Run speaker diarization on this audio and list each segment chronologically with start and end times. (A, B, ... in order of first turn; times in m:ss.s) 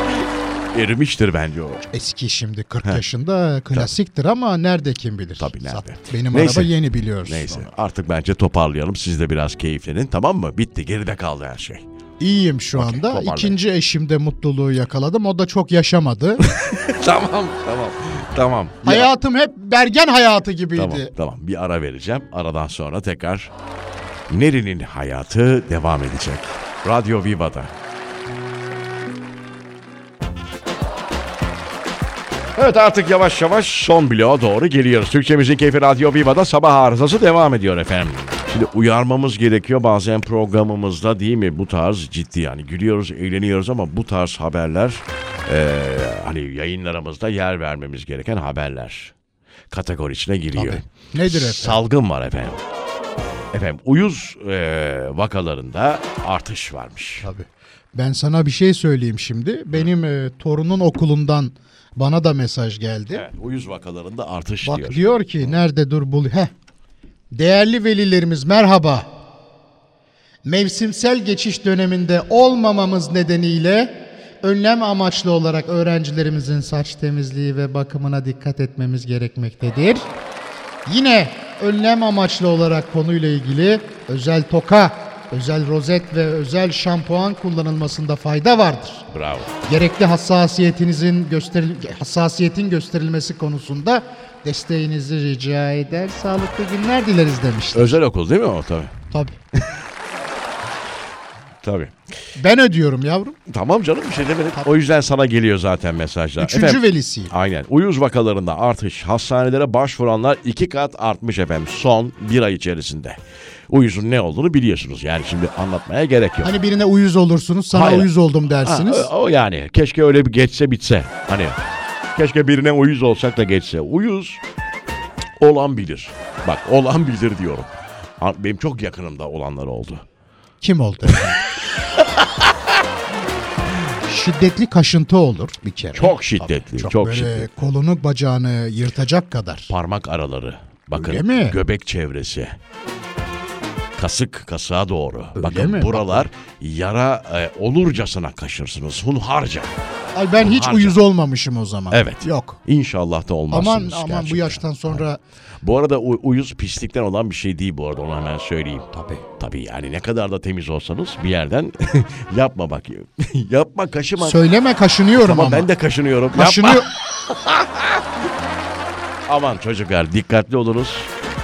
0:00.7-0:01.8 A
0:01.9-0:07.7 B
0:05.4-0:06.7 A
0:07.2-0:11.8 A
0:12.2-0:16.4 B
0:12.7-0:13.6 A
0:16.4-0:19.1 A
0:18.8-0:21.1 B
0:20.8-0:23.5 A
0:24.3-0:27.7 A
0:32.6-0:49.1 A
0:49.7-0:52.6 A
0:50.5-0:51.8 B
0:53.5-0:57.2 A
0:57.2-1:03.2 B
1:03.1-1:05.6 A
1:04.6-1:06.5 B
1:07.3-1:09.1 B
1:10.4-1:20.1 B
1:20.8-1:29.1 B
1:29.1-1:29.5 A
1:29.6-1:38.0 B
1:37.7-1:38.9 A
1:39.1-1:39.4 B
1:41.6-1:42.0 A
1:42.4-1:43.4 B
1:43.5-1:53.2 A
1:46.4-1:47.3 B
1:53.7-1:56.5 A
1:56.4-1:59.1 B
1:57.7-2:01.6 A
2:02.1-2:04.4 A
2:05.4-2:10.0 A
2:10.6-2:11.4 B
2:12.0-2:12.7 A
2:14.1-2:19.7 B
2:15.9-2:17.5 A
2:19.7-2:22.5 A
2:21.0-2:21.6 B
2:24.0-2:29.7 A
2:25.4-2:26.3 B
2:30.1-2:32.6 B
2:30.4-2:31.0 A
2:31.9-2:35.0 A
2:33.5-2:35.2 B
2:35.6-2:38.9 A
2:38.9-2:39.2 B
2:39.4-2:44.4 A
2:44.2-2:45.7 B
2:45.1-2:48.0 A
2:46.3-2:46.9 B
2:49.3-2:51.1 A